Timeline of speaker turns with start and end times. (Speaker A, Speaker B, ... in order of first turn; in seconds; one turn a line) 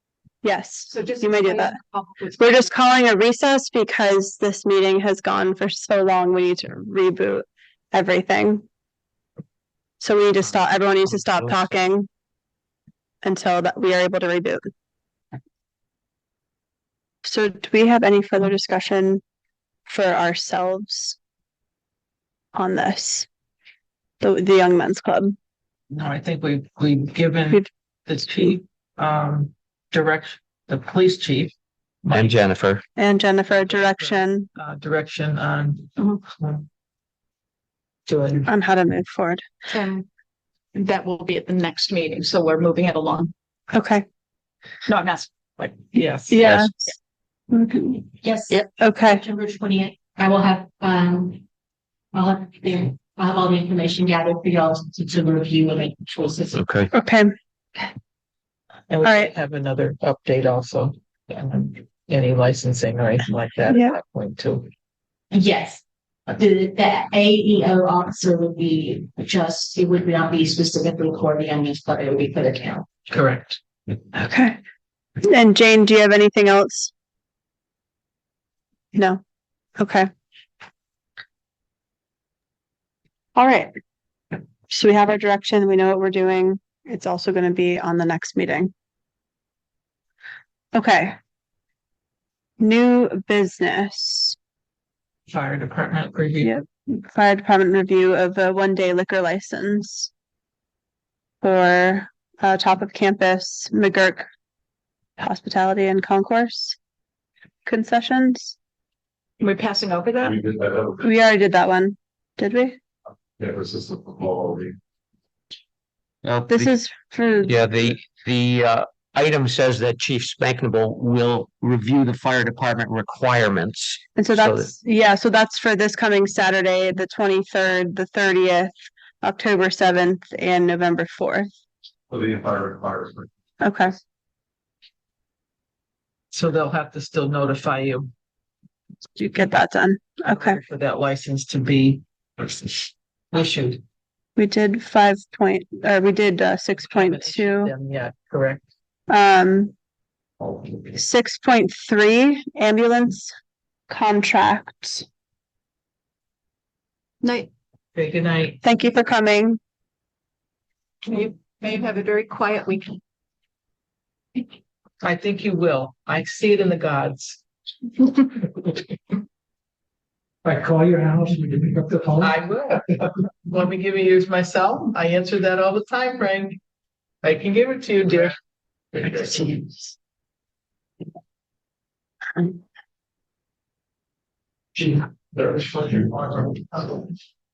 Speaker A: 0.4-1.8
Speaker B: 0.9-2.6
Speaker A: 2.4-8.7
Speaker A: 10.0-12.1
Speaker A: 13.2-14.7
Speaker A: 17.2-19.2
Speaker A: 19.9-21.2
Speaker A: 22.5-23.3
Speaker A: 24.2-25.4
Speaker C: 25.9-31.5
Speaker C: 32.0-32.3
Speaker D: 32.1-32.8
Speaker A: 33.0-34.5
Speaker C: 33.5-36.6
Speaker C: 38.1-38.5
Speaker A: 38.5-39.4
Speaker B: 39.7-40.0
Speaker B: 40.7-43.3
Speaker A: 43.7-44.0
Speaker B: 44.9-45.7
Speaker C: 45.9-46.4
Speaker A: 46.3-46.9
Speaker D: 46.4-46.7
Speaker A: 47.5-48.1
Speaker E: 48.2-51.4
Speaker A: 48.8-49.2
Speaker E: 52.1-56.6
Speaker D: 56.5-56.9
Speaker A: 56.9-57.3
Speaker C: 58.9-64.7
Speaker A: 59.0-59.3
Speaker A: 63.7-64.0
Speaker E: 65.3-72.9
Speaker C: 73.1-73.6
Speaker A: 74.1-74.6
Speaker A: 75.2-76.9
Speaker A: 78.9-79.2
Speaker A: 79.8-80.1
Speaker A: 83.3-83.7
Speaker A: 84.7-88.7
Speaker A: 90.7-91.2
Speaker A: 92.6-94.3
Speaker C: 95.3-96.5
Speaker A: 96.4-100.1
Speaker A: 101.4-104.3
Speaker A: 105.2-106.8
Speaker A: 107.6-108.5
Speaker B: 109.4-110.4
Speaker F: 110.2-111.0
Speaker A: 111.0-112.8
Speaker F: 113.4-114.8
Speaker D: 116.2-116.7
Speaker A: 116.5-117.5
Speaker D: 117.5-124.7
Speaker A: 124.2-131.5
Speaker F: 132.1-133.3
Speaker A: 133.6-133.9
Speaker C: 136.3-138.1
Speaker A: 139.2-140.6
Speaker C: 140.2-143.8
Speaker A: 144.3-147.7
Speaker C: 146.8-148.6
Speaker A: 149.1-149.7
Speaker A: 150.9-153.3
Speaker A: 153.9-155.0
Speaker B: 157.2-157.5
Speaker C: 157.9-158.6
Speaker A: 158.6-159.6
Speaker B: 161.0-163.0
Speaker C: 165.0-167.4
Speaker G: 170.4-172.3
Speaker C: 172.2-176.6
Speaker C: 177.2-178.3
Speaker C: 178.9-179.6
Speaker G: 185.4-186.4